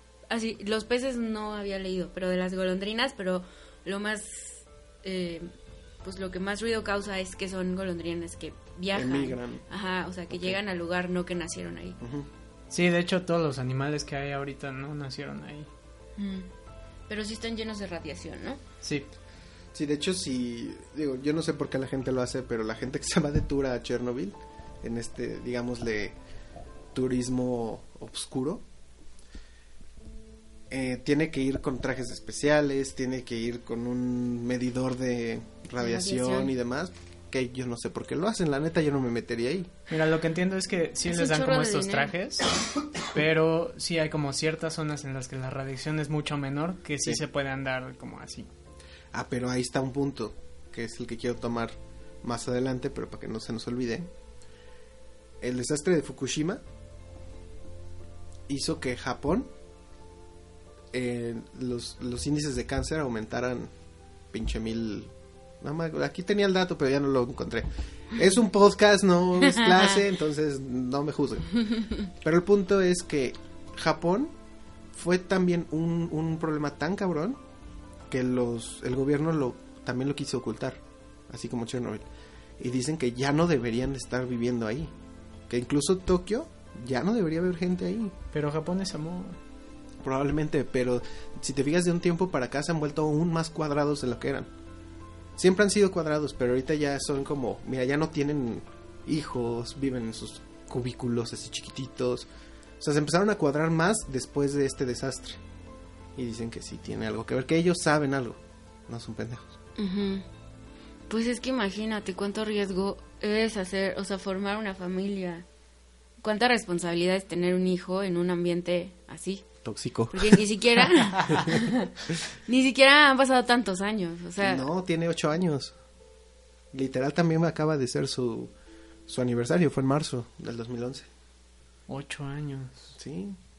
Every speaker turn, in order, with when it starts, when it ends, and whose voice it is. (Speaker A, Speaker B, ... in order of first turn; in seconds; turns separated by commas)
Speaker A: 0.3-5.5, Speaker A: 6.0-12.0, Speaker B: 8.9-9.6, Speaker B: 10.3-10.6, Speaker B: 12.0-12.3, Speaker C: 12.7-15.7, Speaker A: 16.2-16.5, Speaker A: 17.1-18.6, Speaker C: 18.8-19.1, Speaker B: 19.7-26.2, Speaker B: 26.9-28.6, Speaker B: 30.7-39.7, Speaker A: 35.8-36.5, Speaker C: 39.9-48.5, Speaker A: 41.1-42.1, Speaker B: 49.1-54.1, Speaker B: 55.4-56.6, Speaker B: 58.5-59.5, Speaker B: 60.9-63.7, Speaker B: 64.3-74.3, Speaker A: 69.5-69.9, Speaker B: 74.9-77.4, Speaker B: 78.1-82.1, Speaker B: 82.6-84.9, Speaker B: 85.5-88.2, Speaker C: 88.3-89.4, Speaker B: 90.0-94.5, Speaker B: 95.4-102.3, Speaker B: 102.8-105.4, Speaker B: 106.2-109.5, Speaker A: 109.8-110.2, Speaker A: 111.1-115.5, Speaker A: 116.2-119.5, Speaker B: 119.6-120.4, Speaker A: 120.1-121.9, Speaker B: 121.3-121.6, Speaker A: 122.5-124.7, Speaker B: 124.4-125.7, Speaker B: 126.7-128.5, Speaker B: 129.1-131.1, Speaker C: 131.9-132.9, Speaker B: 133.0-133.4